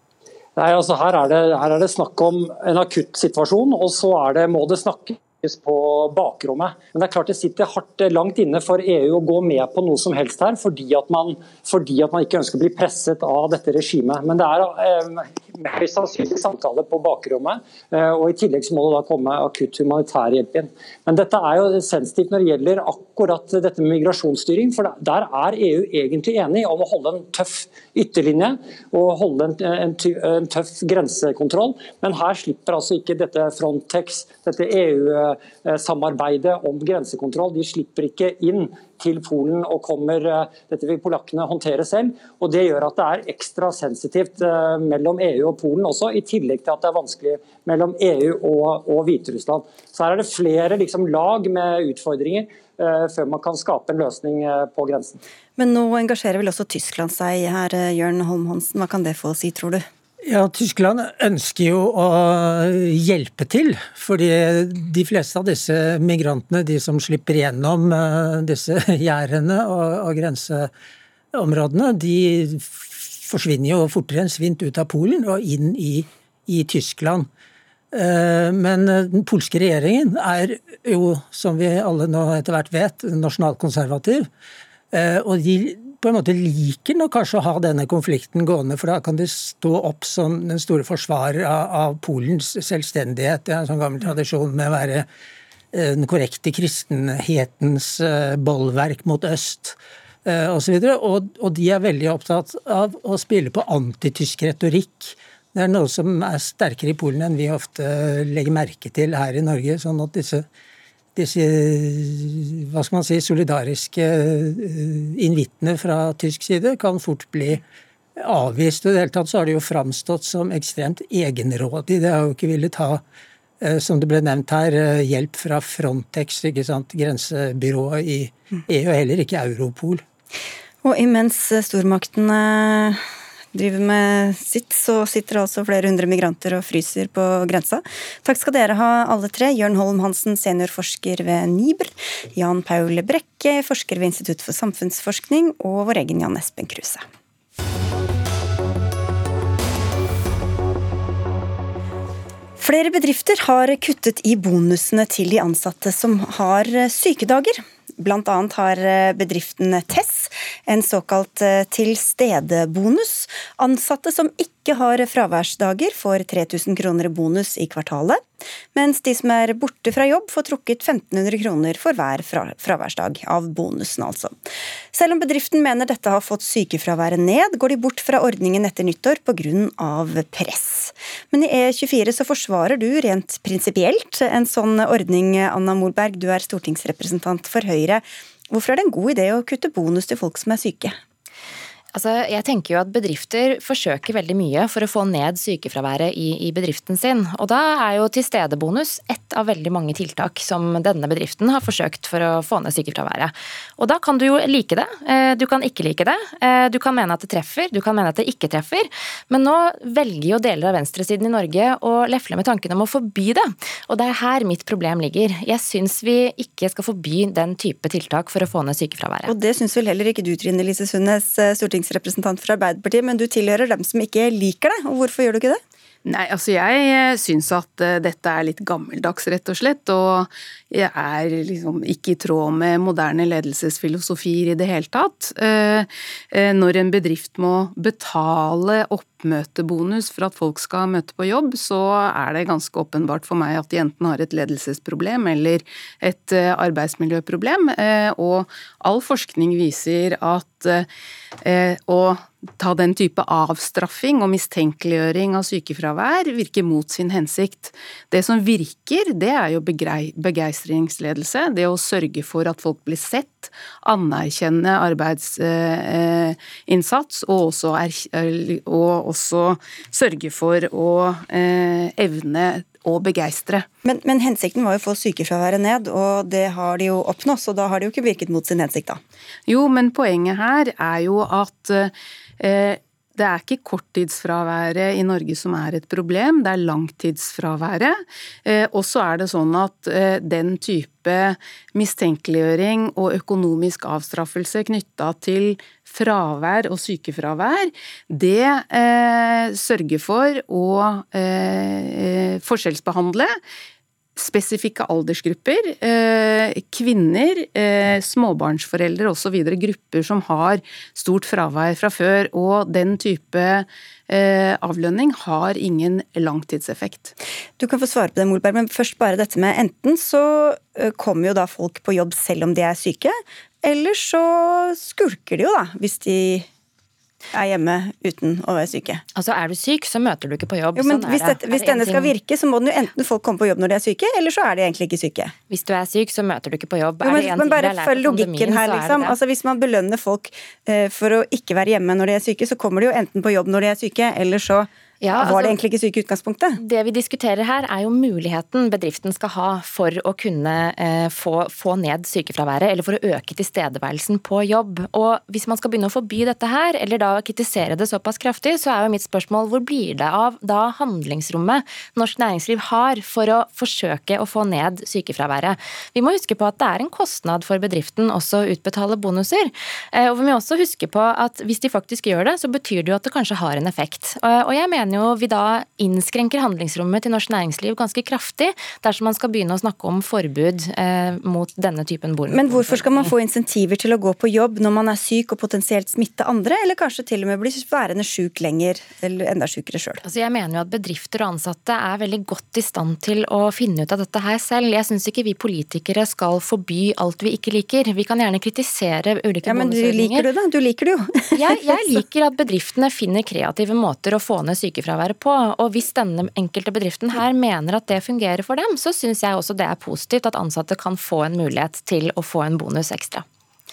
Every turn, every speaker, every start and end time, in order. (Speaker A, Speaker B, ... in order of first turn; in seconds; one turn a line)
Speaker A: 0.6-55.2
Speaker B: 55.6-59.8
Speaker C: 60.2-70.7
Speaker C: 71.3-77.3
Speaker C: 77.9-84.3
Speaker C: 84.9-95.1
Speaker C: 95.7-110.5
Speaker C: 111.2-117.6
Speaker C: 118.2-123.0
Speaker C: 123.6-130.0
Speaker B: 130.8-133.0
Speaker B: 133.5-147.0
Speaker B: 152.6-168.2
Speaker B: 168.7-174.4
Speaker B: 174.9-190.9
Speaker D: 191.9-219.3
Speaker B: 219.3-225.6
Speaker E: 226.0-250.9
Speaker E: 251.4-273.6
Speaker B: 273.8-279.0
Speaker E: 279.5-303.4
Speaker E: 304.1-317.1
Speaker B: 317.6-326.5
Speaker B: 327.3-329.0
Speaker D: 329.1-332.1
Speaker B: 330.8-335.3
Speaker D: 335.5-339.1
Speaker B: 337.0-346.6
Speaker D: 345.0-345.6
Speaker D: 346.6-383.1
Speaker B: 382.3-390.0
Speaker D: 390.0-400.2
Speaker B: 399.4-401.8
Speaker D: 401.4-413.2